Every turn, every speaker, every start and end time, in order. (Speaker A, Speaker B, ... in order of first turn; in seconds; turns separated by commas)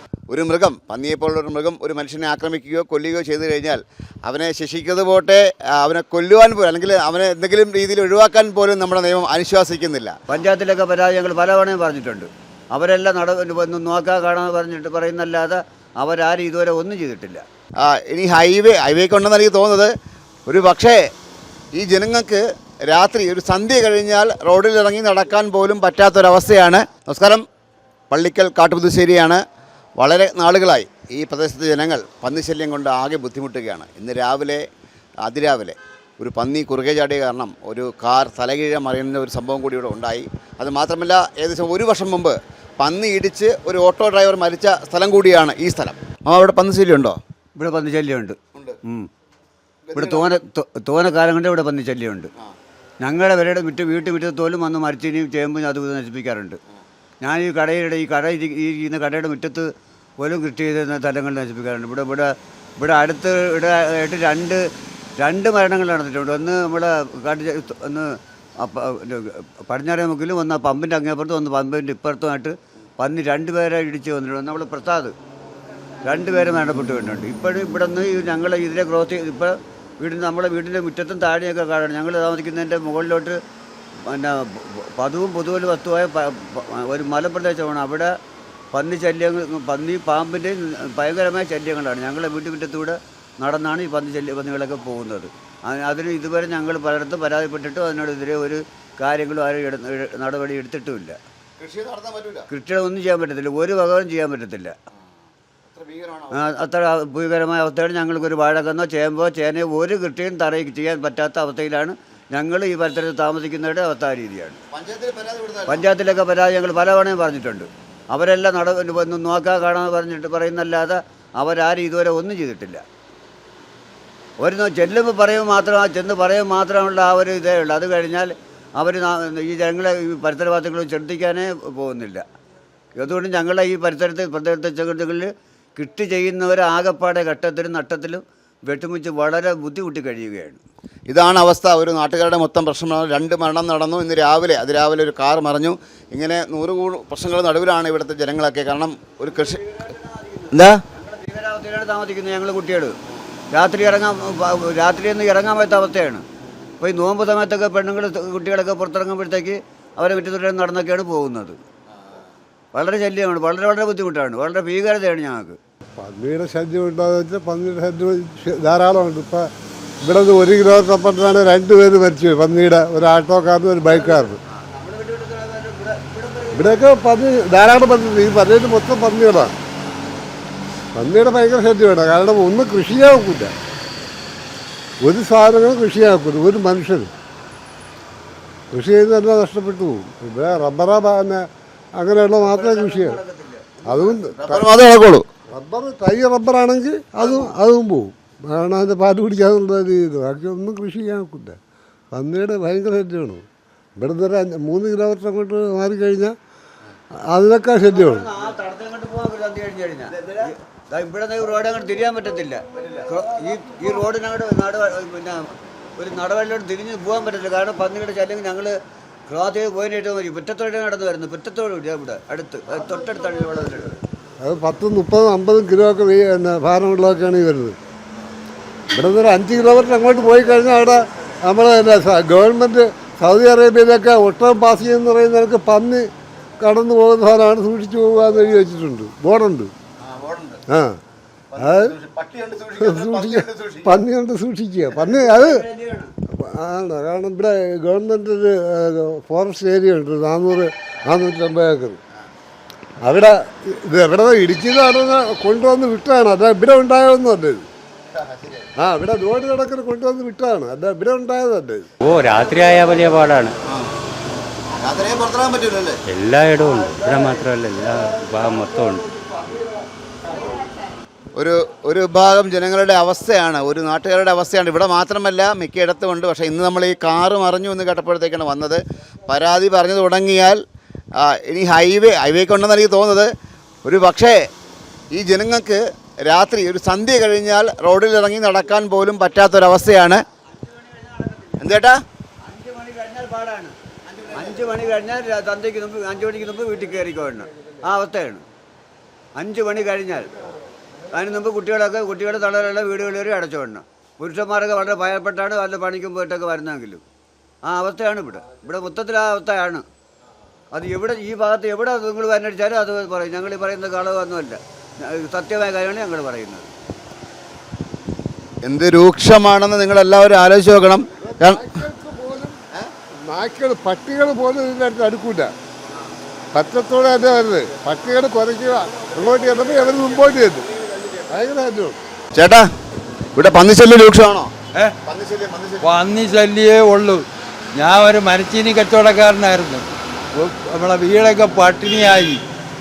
Speaker A: 0.3-10.2, Speaker B: 10.3-17.4, Speaker A: 17.8-19.9, Speaker A: 20.5-21.0, Speaker A: 21.8-27.4, Speaker A: 28.1-29.4, Speaker A: 30.0-34.6, Speaker A: 35.2-47.2, Speaker B: 47.6-49.1, Speaker A: 49.9-50.3, Speaker B: 49.9-52.3, Speaker B: 53.0-56.6, Speaker B: 57.2-64.6, Speaker B: 65.2-75.1, Speaker B: 76.0-83.4, Speaker B: 84.0-88.1, Speaker B: 88.7-101.2, Speaker A: 101.6-102.5, Speaker B: 102.5-104.7, Speaker A: 105.7-106.5, Speaker B: 106.3-114.6, Speaker A: 114.7-115.9, Speaker B: 115.7-122.8, Speaker B: 124.4-132.2, Speaker B: 133.0-140.6, Speaker A: 141.1-149.6, Speaker B: 149.3-153.0, Speaker A: 150.5-150.8, Speaker B: 153.5-156.2, Speaker B: 156.8-161.6, Speaker B: 162.7-165.6, Speaker C: 166.0-169.5, Speaker C: 170.0-174.4, Speaker B: 173.9-176.9, Speaker C: 176.5-179.5, Speaker C: 180.9-183.5, Speaker C: 185.0-187.1, Speaker C: 188.7-191.4, Speaker C: 192.0-193.2, Speaker B: 192.4-194.3, Speaker C: 193.8-194.6, Speaker A: 194.4-195.2, Speaker C: 195.5-201.6, Speaker B: 197.2-197.5, Speaker C: 202.1-203.4, Speaker C: 204.0-206.3, Speaker C: 207.3-208.3, Speaker B: 207.8-218.8, Speaker B: 219.3-224.0, Speaker C: 224.4-227.8, Speaker C: 228.9-236.1, Speaker C: 236.6-239.7, Speaker A: 240.0-240.6, Speaker C: 240.7-241.0, Speaker A: 241.5-243.9, Speaker C: 241.6-241.9, Speaker C: 242.8-245.6, Speaker B: 245.0-246.1, Speaker C: 246.3-252.0, Speaker C: 253.0-257.6, Speaker A: 258.1-258.7, Speaker C: 258.8-261.9, Speaker D: 262.0-263.5, Speaker A: 264.8-266.0, Speaker D: 266.1-269.5, Speaker A: 271.4-280.6, Speaker A: 281.2-283.3, Speaker A: 283.8-284.4, Speaker A: 285.1-290.2, Speaker B: 290.6-291.6, Speaker A: 291.6-292.0, Speaker B: 292.4-298.4, Speaker B: 299.4-300.3, Speaker B: 301.1-307.0, Speaker B: 307.6-309.8, Speaker B: 310.7-316.7, Speaker A: 318.6-321.6, Speaker C: 321.3-322.6, Speaker C: 323.3-325.5, Speaker C: 326.5-330.7, Speaker C: 331.2-332.0, Speaker A: 332.3-332.7, Speaker A: 333.4-334.5, Speaker A: 335.0-335.8, Speaker E: 335.8-337.2, Speaker E: 337.8-339.8, Speaker E: 340.4-342.4